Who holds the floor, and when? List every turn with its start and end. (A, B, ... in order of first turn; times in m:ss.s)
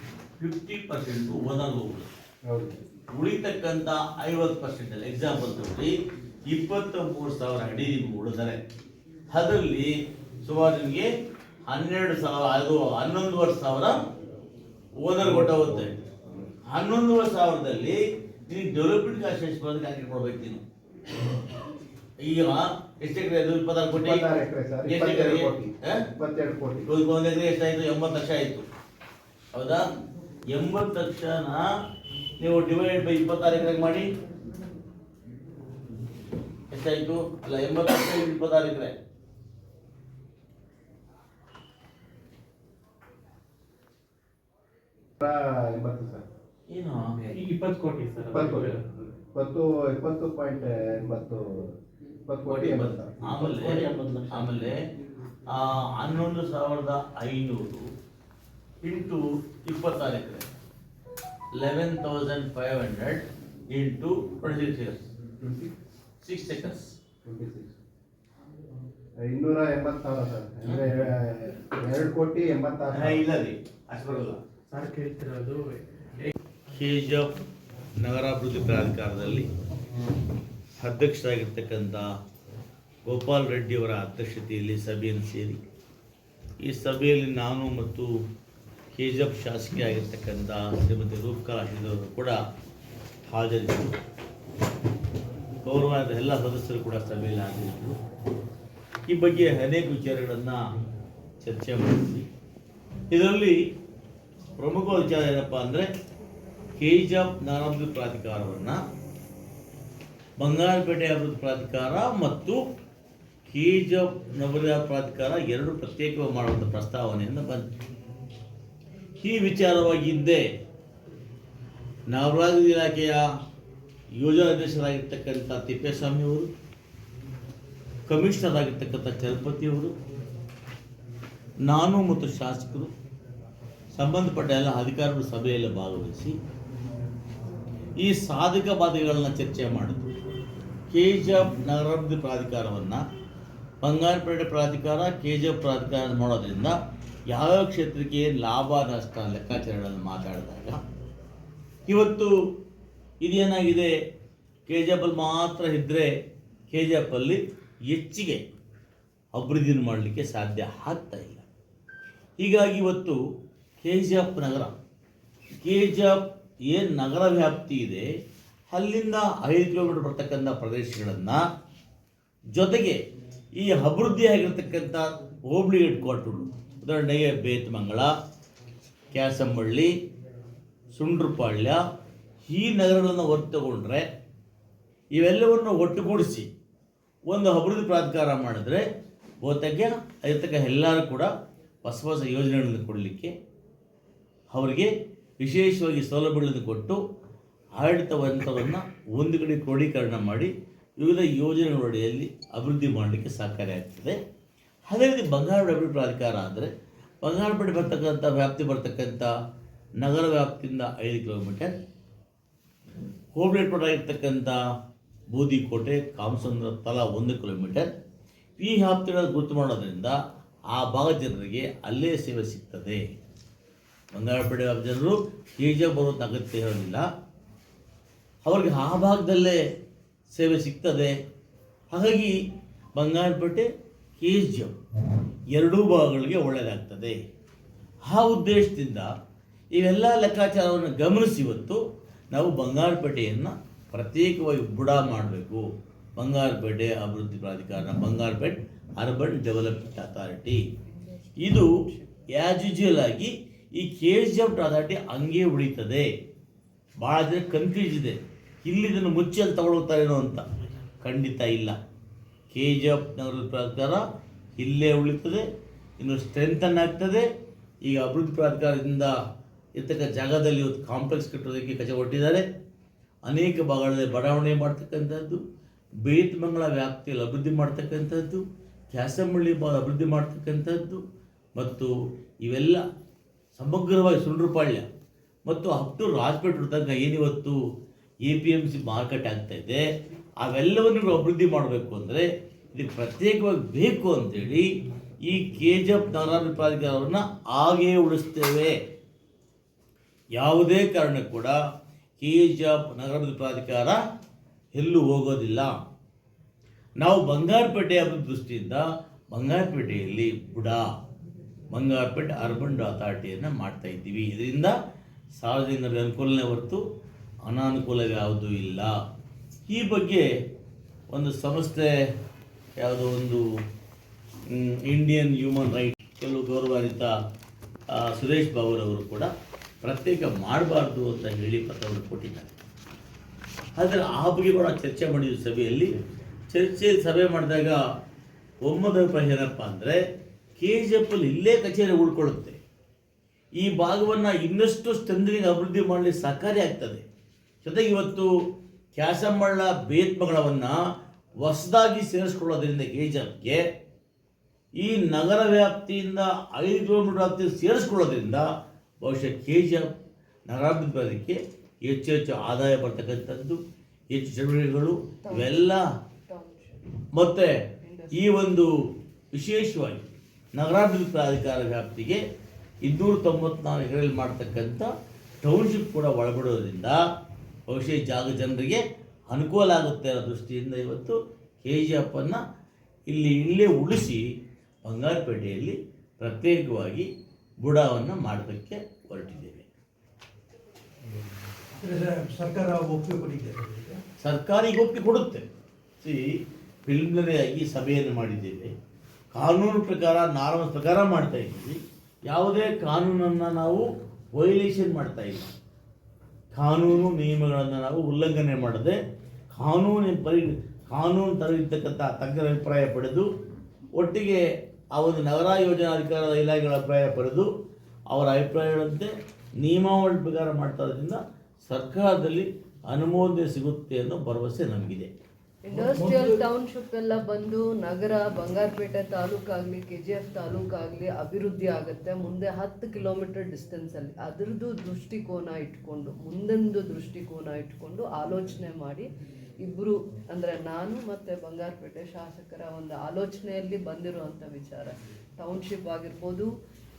0:00.4-0:02.1 A
0:02.5-0:02.8 B
0:03.1-0:05.9 A
0:06.5-0:08.6 A
0:09.3-0:09.9 A
0:10.4-0:11.1 A
0:11.7-0:14.0 A
0:15.0-0:16.0 A
0:15.2-0:16.5 B
0:16.7-0:20.6 A
0:22.2-0:24.2 A
0:23.9-0:26.9 B
0:24.9-0:26.1 A
0:26.9-0:28.6 A
0:29.5-0:29.9 A
0:30.5-0:31.6 A
0:32.4-0:34.1 A
0:36.7-0:39.0 A
0:45.2-0:46.3 B
0:46.7-0:47.4 A
0:47.3-0:48.8 C
0:48.3-0:54.5 B
0:52.4-0:54.8 A
0:55.5-0:57.9 A
0:58.8-1:00.5 A
1:01.6-1:05.1 A
1:05.4-1:05.7 B
1:06.2-1:06.9 A
1:07.2-1:07.8 B
1:09.2-1:13.2 B
1:12.9-1:14.4 A
1:14.7-1:16.3 C
1:16.3-1:17.3 A
1:18.0-1:19.5 A
1:20.8-1:22.1 A
1:23.0-1:25.6 A
1:26.6-1:28.1 A
1:29.0-1:32.4 A
1:33.3-1:34.0 A
1:35.6-1:38.0 A
1:39.1-1:40.6 A
1:41.4-1:42.3 A
1:43.1-1:43.6 A
1:44.6-1:45.9 A
1:46.8-1:48.8 A
1:50.4-1:52.6 A
1:53.5-1:57.7 A
1:59.2-2:00.4 A
2:02.1-2:03.2 A
2:04.2-2:06.5 A
2:08.1-2:10.0 A
2:11.7-2:12.9 A
2:14.0-2:16.4 A
2:18.0-2:20.1 A
2:20.9-2:23.0 A
2:23.8-2:26.8 A
2:27.3-2:30.8 A
2:31.9-2:32.3 A
2:33.2-2:33.9 A
2:34.7-2:36.1 A
2:36.7-2:38.5 A
2:39.3-2:41.5 A
2:42.4-2:43.2 A
2:43.8-2:44.7 A
2:45.6-2:48.1 A
2:48.7-2:51.4 A
2:52.6-2:53.0 A
2:53.6-2:58.1 A
2:59.1-2:59.9 A
3:00.9-3:01.8 A
3:02.5-3:04.1 A
3:05.2-3:06.5 A
3:07.3-3:08.8 A
3:09.4-3:11.3 A
3:11.8-3:13.3 A
3:14.5-3:17.0 A
3:17.8-3:24.2 A
3:24.9-3:26.7 A
3:27.2-3:29.3 A
3:30.0-3:31.8 A
3:33.4-3:34.6 A
3:35.3-3:37.9 A
3:38.6-3:40.2 A
3:40.7-3:43.0 A
3:44.1-3:47.0 A
3:48.4-3:49.6 A
3:50.3-3:51.1 A
3:51.9-3:52.3 A
3:53.0-3:53.7 A
3:54.2-3:54.8 A
3:55.5-3:57.2 A
3:58.1-3:59.1 A
3:59.7-4:01.8 A
4:02.3-4:05.6 A
4:06.2-4:10.6 A
4:10.9-4:12.3 D
4:11.4-4:11.7 A
4:12.3-4:16.1 A
4:17.0-4:20.5 A
4:21.0-4:21.8 A
4:22.5-4:24.0 A
4:24.6-4:25.4 A
4:26.0-4:27.3 A
4:27.8-4:29.1 A
4:29.8-4:32.4 A
4:33.3-4:35.4 A
4:36.0-4:41.0 A
4:41.6-4:41.9 A
4:42.4-4:42.8 A
4:43.6-4:44.9 A
4:45.5-4:47.6 A
4:48.2-4:49.8 A
4:50.4-4:54.6 A
4:55.2-4:58.7 A
5:00.4-5:01.6 A
5:02.2-5:04.0 A
5:04.7-5:05.8 A
5:07.0-5:10.9 A
5:11.7-5:14.7 A
5:15.4-5:16.8 A
5:17.5-5:18.9 A
5:19.7-5:20.3 A
5:21.1-5:21.9 A
5:22.8-5:23.4 A
5:24.5-5:27.1 A
5:28.0-5:29.3 A
5:29.8-5:32.5 A
5:33.8-5:36.0 A
5:36.5-5:37.8 A
5:38.6-5:40.0 A
5:40.6-5:42.6 A
5:43.6-5:47.0 A
5:47.6-5:48.3 A
5:48.9-5:50.8 A
5:51.4-5:53.6 A
5:54.8-5:58.5 A
5:59.0-5:59.9 A
6:00.5-6:05.8 A
6:05.2-6:05.7 D
6:06.3-6:06.8 D
6:07.1-6:07.6 A
6:07.8-6:08.3 D
6:08.2-6:08.7 A
6:09.3-6:12.2 A
6:12.8-6:14.9 A
6:15.4-6:17.0 A
6:17.7-6:22.4 A
6:23.1-6:24.2 A
6:24.8-6:27.1 A
6:27.6-6:29.7 A
6:31.7-6:34.0 E
6:34.2-6:35.4 A
6:36.0-6:36.3 A
6:36.9-6:38.7 A
6:39.3-6:45.5 A
6:46.5-6:49.0 A
6:49.5-6:53.3 A
6:54.0-6:54.4 A
6:55.0-6:57.5 A
6:58.1-6:59.1 A
6:59.6-7:05.1 A
7:05.6-7:19.1 D
7:05.7-7:06.4 E
7:19.6-7:26.5 D